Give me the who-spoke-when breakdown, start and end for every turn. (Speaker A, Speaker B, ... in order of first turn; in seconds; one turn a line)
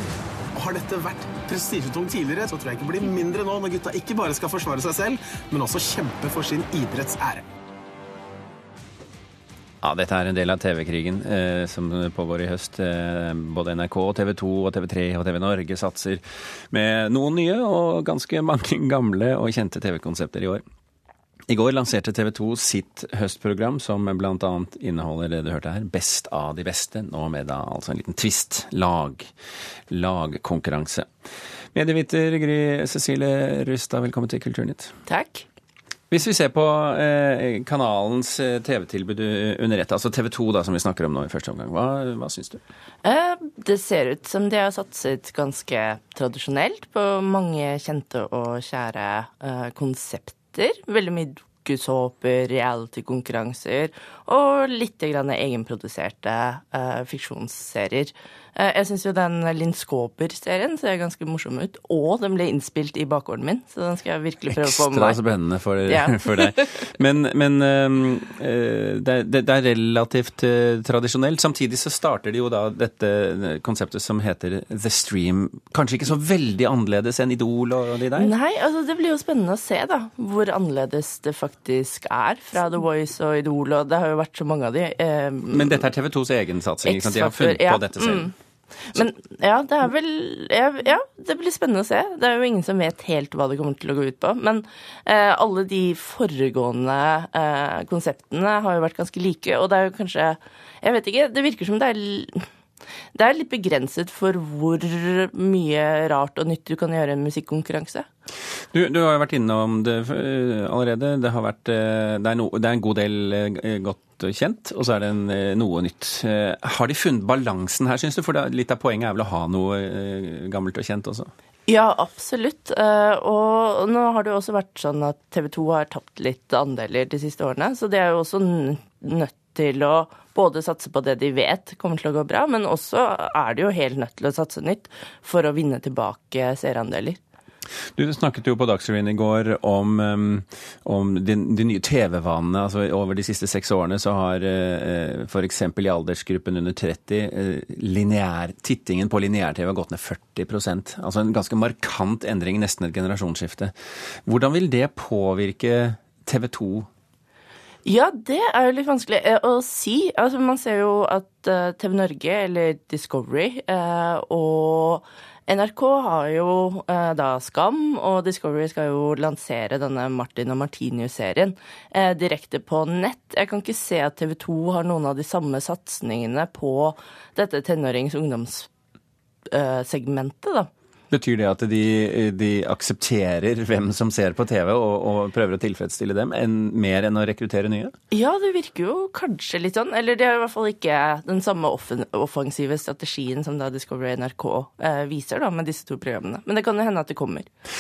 Speaker A: 0.5-7.5
Speaker B: 9.8-20.6
Speaker B: 21.5-29.3
Speaker B: 29.9-31.1
Speaker B: 31.7-34.9
Speaker C: 35.1-35.5
Speaker B: 36.1-42.6
Speaker C: 43.0-65.2
Speaker B: 64.5-78.3
Speaker C: 65.9-66.8
Speaker C: 78.2-85.9
Speaker B: 85.5-88.3
Speaker C: 86.8-88.3
Speaker C: 88.9-102.5
Speaker C: 103.2-108.1
Speaker B: 108.7-121.3
Speaker C: 121.7-137.2
Speaker B: 138.0-153.7
Speaker B: 154.2-156.9
Speaker C: 157.8-178.7
Speaker C: 179.5-180.7
Speaker B: 181.1-187.9
Speaker C: 188.1-197.5